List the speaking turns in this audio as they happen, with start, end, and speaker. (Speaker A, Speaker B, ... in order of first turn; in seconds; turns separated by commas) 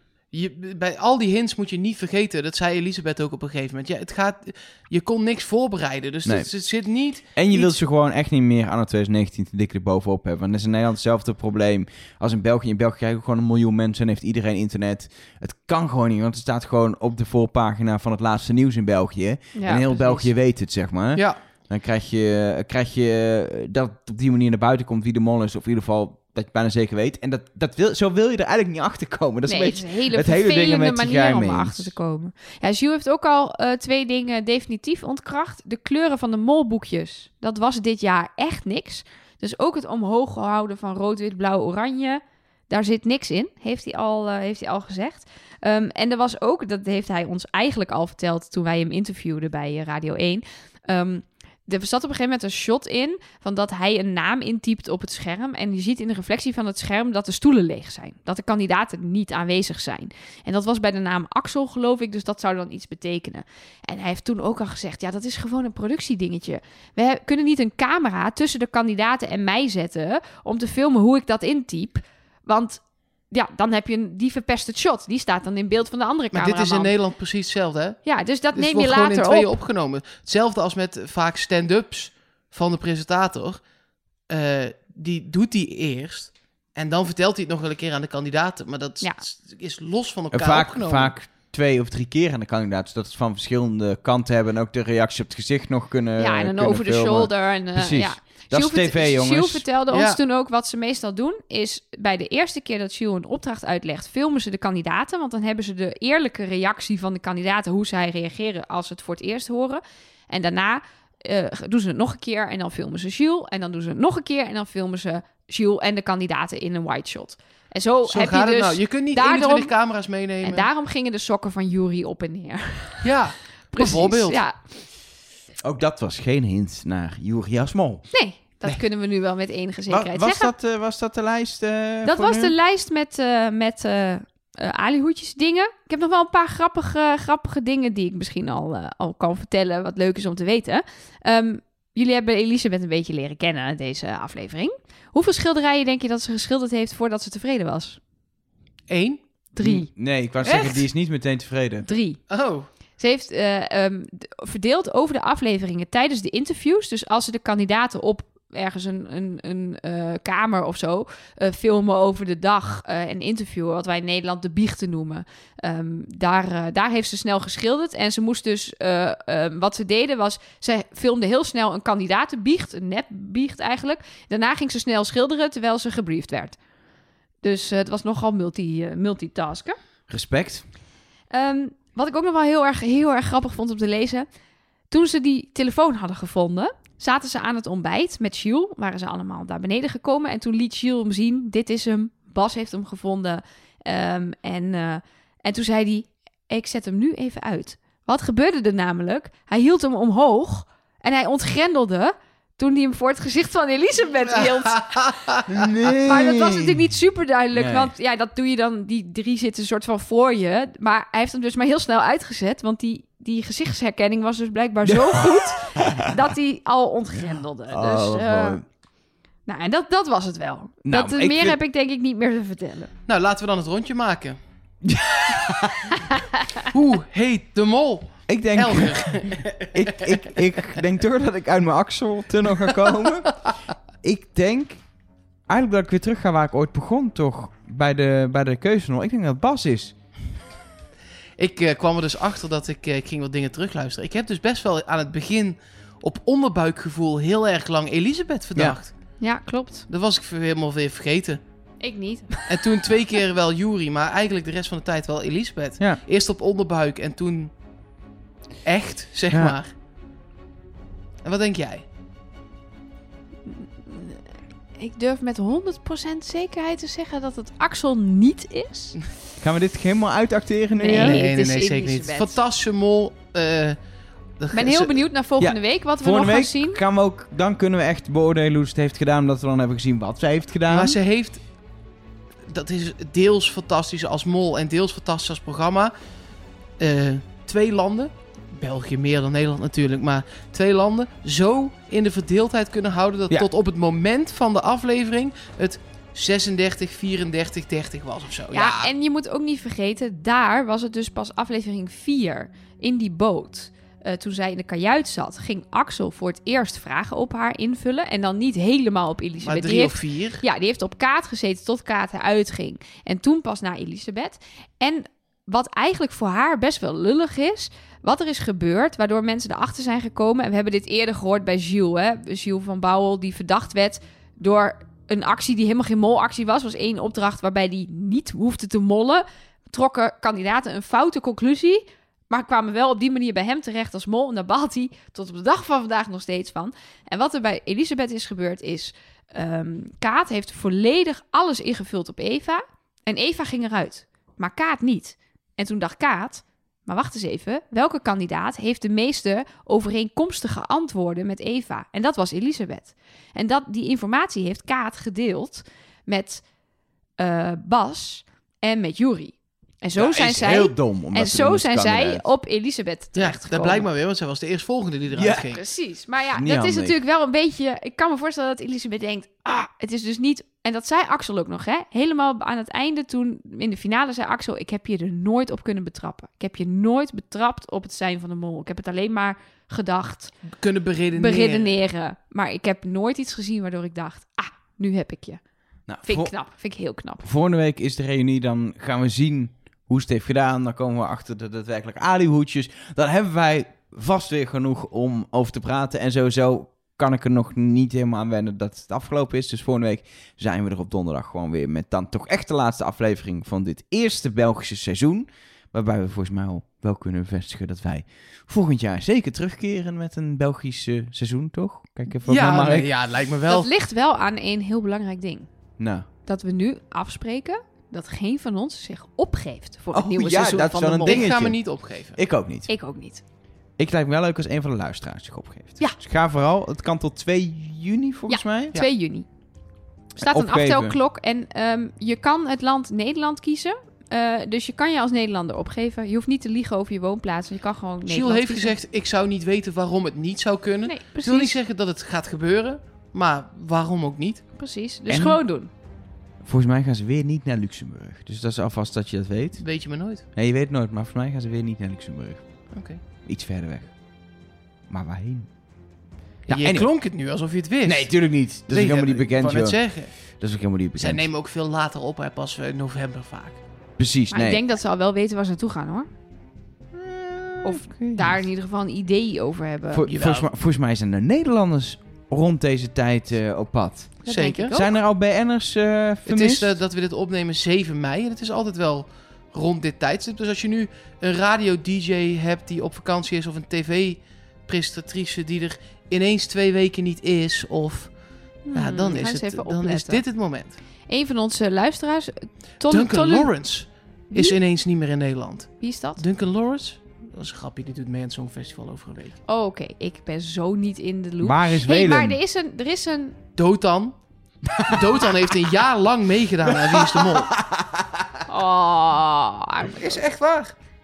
Speaker A: 0.3-7.8, Speaker B: 6.2-6.5, Speaker B: 7.3-31.9, Speaker C: 19.6-20.2, Speaker C: 29.5-76.9, Speaker A: 76.3-83.6, Speaker C: 78.0-79.5, Speaker A: 84.3-91.1, Speaker B: 90.3-99.6, Speaker C: 96.2-119.7, Speaker A: 99.9-100.2, Speaker A: 118.1-120.7, Speaker C: 120.4-123.1, Speaker A: 123.0-124.4, Speaker C: 123.7-124.6, Speaker B: 125.6-128.8, Speaker C: 128.1-130.5, Speaker B: 129.9-132.6, Speaker C: 132.1-148.0, Speaker A: 148.9-149.2, Speaker C: 149.6-149.9, Speaker B: 149.6-151.9, Speaker A: 150.4-150.8, Speaker C: 151.9-152.2, Speaker A: 152.3-152.7, Speaker C: 153.0-176.6, Speaker C: 177.4-179.8, Speaker B: 180.1-180.7, Speaker C: 181.3-184.3, Speaker C: 184.9-205.0, Speaker B: 205.5-206.8, Speaker C: 206.0-218.6, Speaker B: 207.6-207.9, Speaker B: 214.9-215.8, Speaker B: 217.3-218.7, Speaker C: 219.5-222.9, Speaker B: 220.8-221.6, Speaker A: 223.1-224.4, Speaker B: 224.8-225.9, Speaker C: 226.1-226.4, Speaker A: 226.7-230.4, Speaker B: 228.3-233.4, Speaker B: 234.0-234.8, Speaker B: 235.5-239.9, Speaker A: 241.4-248.9, Speaker C: 249.2-249.9, Speaker A: 249.9-251.4, Speaker C: 251.8-252.6, Speaker A: 252.5-257.5, Speaker A: 258.6-259.7, Speaker B: 259.3-259.6, Speaker A: 261.2-261.8, Speaker C: 263.5-264.2, Speaker C: 264.8-269.0, Speaker B: 269.4-271.2, Speaker C: 270.8-272.4, Speaker A: 270.9-273.8, Speaker A: 274.4-275.0, Speaker C: 274.5-276.8, Speaker B: 275.4-281.0, Speaker A: 280.7-281.4, Speaker A: 282.5-285.9, Speaker A: 286.8-298.9, Speaker C: 298.5-356.4, Speaker A: 309.4-310.4, Speaker C: 357.2-363.9, Speaker B: 360.0-362.3, Speaker A: 363.2-365.6, Speaker B: 365.1-365.5, Speaker C: 365.5-380.3, Speaker B: 366.4-367.0, Speaker A: 380.6-381.8, Speaker C: 381.1-385.4, Speaker B: 385.9-386.4, Speaker C: 386.0-387.2, Speaker B: 387.2-412.9, Speaker A: 412.3-413.7, Speaker C: 413.5-415.5, Speaker B: 415.8-416.1, Speaker C: 416.3-421.3, Speaker B: 419.9-422.7, Speaker A: 421.0-422.2, Speaker C: 422.7-423.2, Speaker B: 423.8-428.8, Speaker C: 428.3-429.3, Speaker C: 430.1-438.7, Speaker B: 430.2-431.0, Speaker A: 438.1-444.4, Speaker C: 440.9-441.6, Speaker C: 444.6-445.7, Speaker B: 445.1-445.4, Speaker B: 446.4-453.9, Speaker A: 449.6-450.2, Speaker A: 452.7-453.0, Speaker B: 454.9-455.5, Speaker A: 456.5-460.1, Speaker B: 456.5-456.9, Speaker B: 457.9-461.3, Speaker A: 460.9-463.6, Speaker B: 464.0-464.6, Speaker C: 464.3-466.1, Speaker B: 466.9-468.4, Speaker C: 467.6-470.1, Speaker B: 469.9-476.8, Speaker A: 470.1-470.5, Speaker C: 474.2-474.9, Speaker A: 474.3-474.8, Speaker A: 476.3-488.1, Speaker C: 488.7-490.2, Speaker A: 488.7-490.8, Speaker C: 491.1-493.5, Speaker A: 492.9-499.4, Speaker C: 494.3-494.6, Speaker C: 495.8-496.2, Speaker C: 499.5-503.4, Speaker B: 501.4-502.4, Speaker A: 503.6-504.1, Speaker A: 504.8-507.5, Speaker B: 506.6-508.3, Speaker C: 508.5-510.2, Speaker A: 509.8-510.7